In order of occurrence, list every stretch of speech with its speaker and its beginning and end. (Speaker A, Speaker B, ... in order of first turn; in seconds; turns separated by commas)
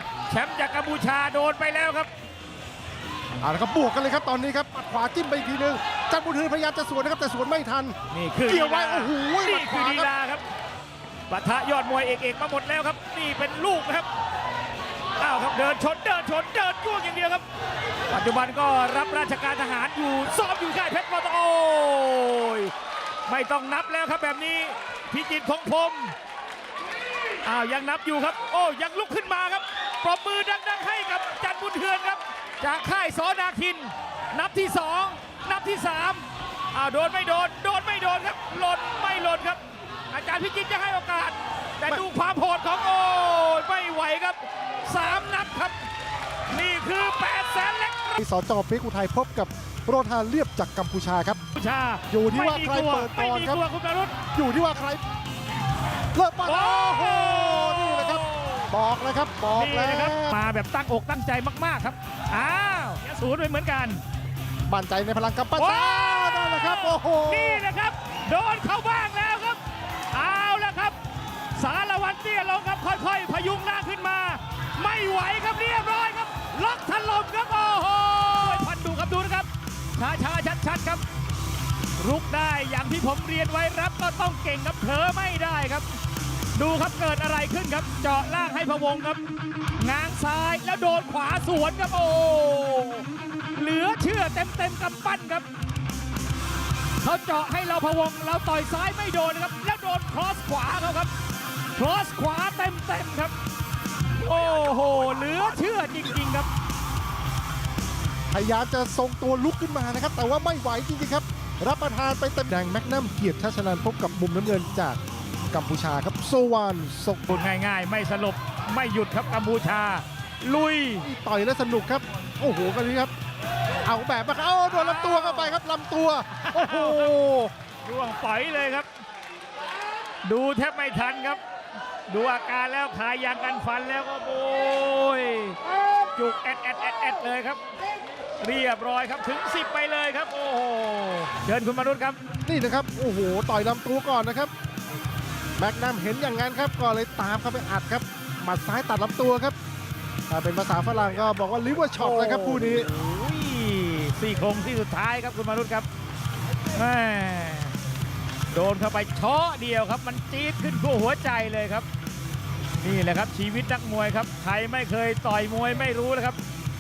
Speaker A: 0.3-2.1, Speaker B: 3.4-8.0, Speaker A: 8.1-10.4, Speaker B: 8.5-10.1, Speaker A: 11.3-14.1, Speaker A: 15.2-17.4, Speaker A: 18.1-22.7, Speaker A: 23.3-26.1, Speaker A: 27.4-45.8, Speaker A: 46.5-48.2, Speaker B: 48.2-51.4, Speaker A: 51.5-54.2, Speaker B: 52.1-53.6, Speaker B: 54.3-55.0, Speaker B: 56.1-60.4, Speaker A: 56.5-58.7, Speaker A: 59.5-64.0, Speaker B: 64.7-67.6, Speaker A: 65.6-69.6, Speaker A: 70.1-71.0, Speaker A: 71.5-81.0, Speaker A: 82.0-85.9, Speaker A: 86.5-89.2, Speaker A: 89.8-95.5, Speaker A: 97.0-101.1, Speaker A: 101.8-103.3, Speaker A: 104.2-106.5, Speaker B: 108.3-115.0, Speaker B: 115.5-117.3, Speaker A: 117.3-121.1, Speaker B: 121.0-123.1, Speaker B: 123.8-127.5, Speaker A: 124.7-125.6, Speaker A: 126.3-127.1, Speaker A: 127.8-128.9, Speaker A: 130.2-131.4, Speaker A: 132.1-135.6, Speaker A: 136.2-137.6, Speaker A: 138.4-142.2, Speaker B: 142.4-144.5, Speaker B: 145.6-149.6, Speaker B: 150.3-152.9, Speaker A: 152.0-155.9, Speaker A: 156.7-157.8, Speaker A: 158.5-161.9, Speaker A: 162.8-166.4